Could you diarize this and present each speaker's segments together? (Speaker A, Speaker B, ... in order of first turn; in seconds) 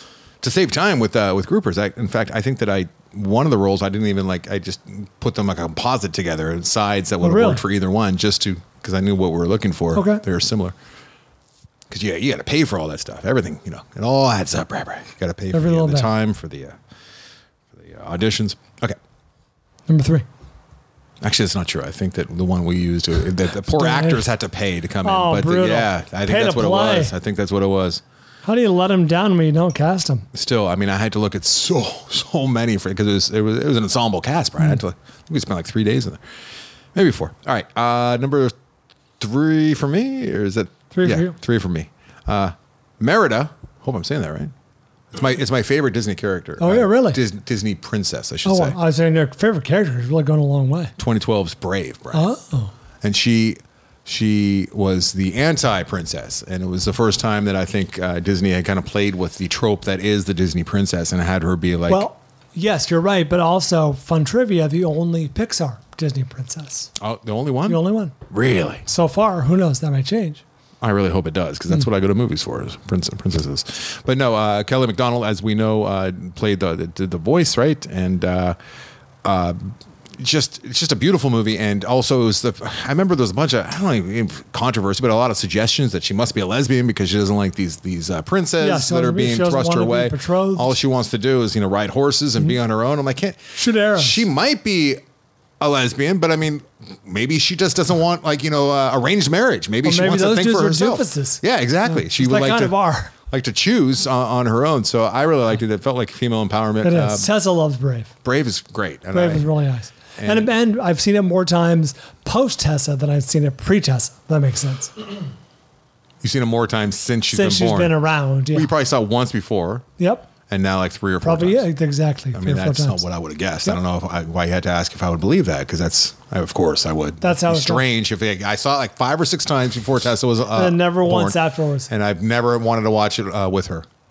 Speaker A: 0.4-10.7, 11.9-16.8, 17.8-19.0, 21.2-28.0, 30.3-36.2, 37.0-38.5, 39.2-44.5, 45.1-48.8, 51.0-52.3, 53.0-62.1, 67.0-68.8, 70.8-78.6, 79.2-95.0, 95.6-102.8, 103.3-107.3, 108.2-109.5, 110.2-110.5, 116.2-118.0, 118.5-119.8, 120.5-121.7, 122.3-131.4, 131.9-133.9
Speaker B: 7.2-7.6, 9.9-10.2, 15.5-16.1, 19.9-20.2, 23.7-24.3, 25.0-27.1, 28.4-30.2, 40.9-41.4, 46.6-47.2, 48.5-50.9, 52.1-52.7, 61.9-66.9, 67.7-68.1, 68.9-70.4, 88.6-90.8, 93.5-94.2, 99.8-103.1, 106.8-108.1, 109.1-114.9, 117.3-118.7, 120.0-120.3, 121.2-123.0, 127.2-127.8, 130.6-131.9